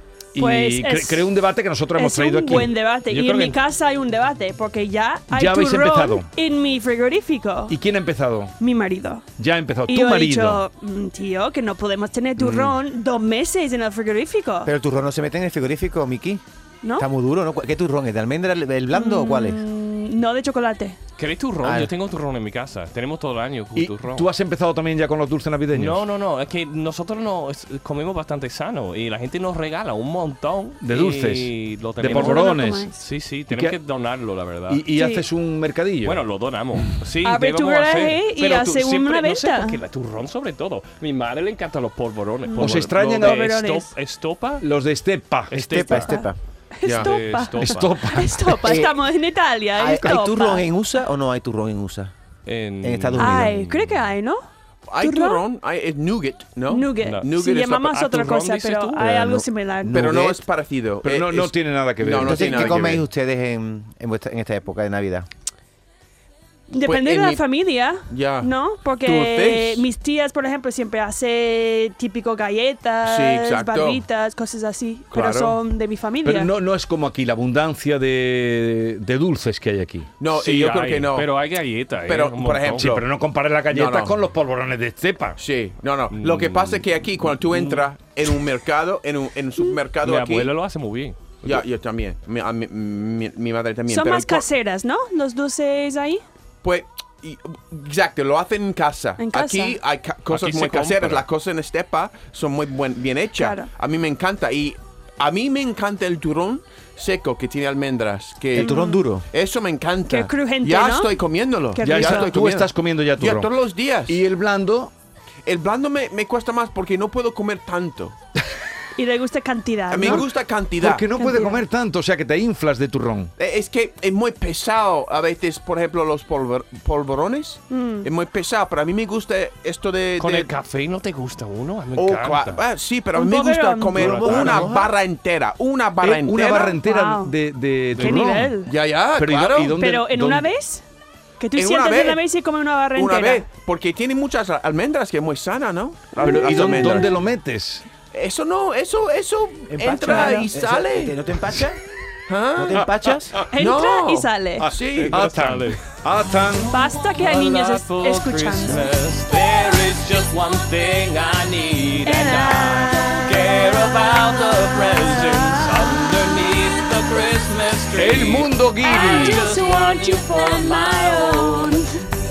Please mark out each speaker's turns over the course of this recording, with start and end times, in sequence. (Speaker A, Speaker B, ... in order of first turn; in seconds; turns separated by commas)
Speaker A: 0.3-2.7, Speaker B: 0.4-1.3, Speaker B: 1.9-7.7, Speaker C: 3.1-3.5, Speaker A: 5.3-6.3, Speaker A: 7.7-8.6, Speaker B: 8.6-9.2, Speaker A: 9.4-10.6, Speaker B: 9.9-14.7, Speaker D: 14.7-16.4, Speaker D: 17.0-19.6, Speaker B: 18.9-21.0, Speaker C: 21.2-24.3, Speaker D: 21.6-21.9, Speaker A: 23.8-26.0, Speaker C: 25.7-34.9, Speaker A: 30.8-32.9, Speaker B: 32.1-33.0, Speaker A: 33.5-33.8, Speaker A: 34.7-36.2, Speaker B: 34.9-35.2, Speaker C: 36.0-44.6, Speaker B: 37.2-39.8, Speaker B: 42.5-43.9, Speaker A: 42.6-43.5, Speaker A: 44.6-45.6, Speaker C: 45.5-46.2, Speaker D: 45.5-46.4, Speaker B: 46.8-50.7, Speaker E: 46.8-47.1, Speaker C: 46.9-48.2, Speaker A: 47.6-48.6, Speaker D: 48.5-49.0, Speaker D: 49.8-52.1, Speaker C: 52.5-54.1, Speaker D: 52.8-53.5, Speaker B: 53.2-54.4, Speaker E: 54.9-58.0, Speaker B: 55.0-55.4, Speaker B: 56.7-60.0, Speaker C: 57.0-59.5, Speaker D: 59.9-60.3, Speaker E: 59.9-63.0, Speaker A: 61.0-63.0, Speaker D: 62.2-65.3, Speaker B: 66.7-76.5, Speaker E: 66.8-67.4, Speaker E: 68.1-68.5, Speaker E: 69.0-69.8, Speaker E: 73.0-74.0, Speaker E: 75.1-75.6, Speaker A: 76.2-80.1, Speaker E: 80.2-81.3, Speaker C: 80.3-82.9, Speaker E: 82.0-83.0, Speaker A: 82.8-85.4, Speaker E: 83.7-84.2, Speaker E: 85.4-90.5, Speaker C: 86.1-86.9, Speaker C: 90.0-91.6, Speaker E: 91.4-94.5, Speaker B: 93.9-96.2, Speaker E: 96.6-114.2, Speaker B: 99.2-99.8, Speaker C: 100.3-101.2, Speaker B: 103.4-103.7, Speaker D: 108.5-109.2, Speaker B: 108.6-109.0, Speaker B: 110.1-111.2, Speaker B: 111.7-112.3, Speaker A: 111.8-113.5, Speaker A: 114.1-114.9, Speaker E: 115.5-118.2, Speaker B: 119.0-120.2, Speaker E: 119.9-121.0, Speaker A: 120.8-123.3, Speaker B: 121.1-121.6, Speaker E: 123.4-130.5, Speaker B: 127.7-128.1, Speaker C: 130.2-132.6, Speaker E: 131.9-136.8, Speaker B: 133.1-134.2, Speaker C: 133.9-134.7, Speaker D: 134.0-134.9, Speaker A: 136.0-138.6, Speaker B: 136.8-137.3, Speaker B: 138.0-138.7, Speaker E: 138.7-139.8, Speaker A: 139.2-140.5, Speaker B: 139.8-140.8, Speaker B: 141.4-143.4, Speaker E: 141.6-142.2, Speaker E: 142.9-147.1, Speaker B: 146.2-147.0, Speaker A: 146.2-147.8, Speaker E: 148.1-151.1, Speaker D: 149.7-151.8, Speaker B: 150.0-150.5, Speaker E: 152.3-152.8, Speaker D: 152.6-153.3, Speaker B: 153.5-154.7, Speaker E: 153.6-155.2, Speaker A: 154.6-156.7, Speaker C: 155.0-155.8, Speaker B: 156.7-158.9, Speaker C: 157.1-171.8, Speaker B: 162.0-163.3, Speaker A: 167.9-169.4, Speaker B: 168.8-171.9